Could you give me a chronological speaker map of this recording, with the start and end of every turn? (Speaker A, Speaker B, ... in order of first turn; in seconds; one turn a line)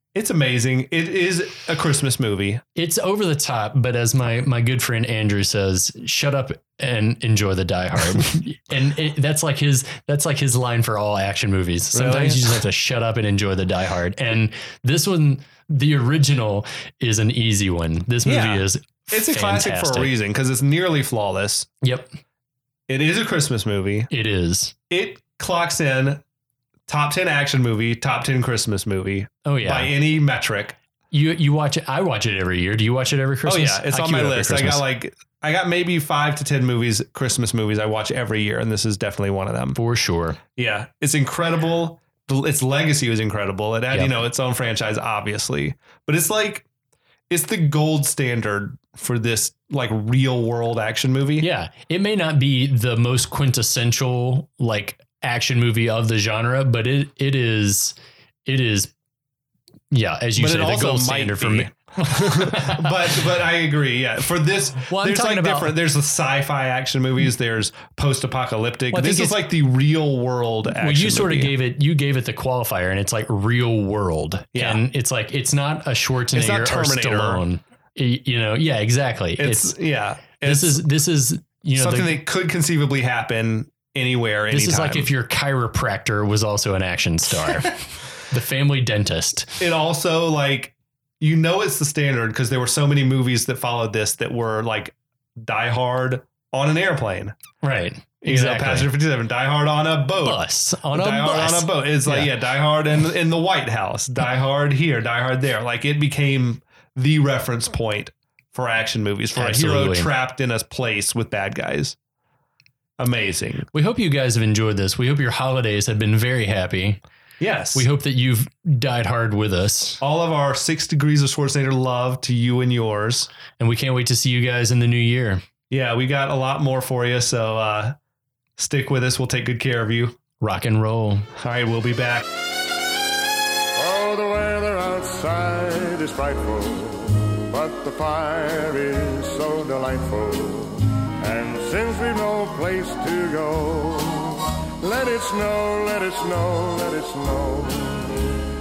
Speaker A: 0.1-2.6
Speaker B: 2.8-20.1
Speaker A: 11.9-12.6
Speaker A: 18.2-21.7
Speaker B: 21.8-22.1
Speaker A: 22.9-24.1
Speaker B: 24.1-24.7
Speaker A: 24.9-26.2
Speaker A: 26.9-30.8
Speaker B: 29.4-29.9
Speaker B: 31.1-34.9
Speaker A: 33.5-39.8
Speaker B: 39.8-40.4
Speaker A: 40.5-46.7
Speaker B: 43.9-44.2
Speaker A: 47.3-51.5
Speaker B: 51.4-58.0
Speaker B: 58.5-58.9
Speaker B: 59.9-63.1
Speaker A: 60.4-71.5
Speaker B: 64.8-65.7
Speaker B: 68.9-69.4
Speaker B: 70.7-79.8
Speaker A: 74.5-74.8
Speaker A: 76.3-77.4
Speaker A: 79.4-80.8
Speaker B: 80.4-82.2
Speaker A: 81.7-85.1
Speaker B: 84.5-89.6
Speaker A: 89.6-97.3
Speaker B: 97.6-98.9
Speaker A: 98.2-112.0
Speaker B: 100.2-102.3
Speaker B: 109.3-110.1
Speaker A: 113.0-113.7
Speaker B: 113.7-117.0
Speaker A: 117.4-117.9
Speaker B: 117.7-120.0
Speaker A: 120.0-123.3
Speaker B: 123.6-125.4
Speaker A: 125.7-128.0
Speaker A: 128.6-130.2
Speaker B: 130.4-131.3
Speaker A: 131.4-132.2
Speaker C: 133.8-148.4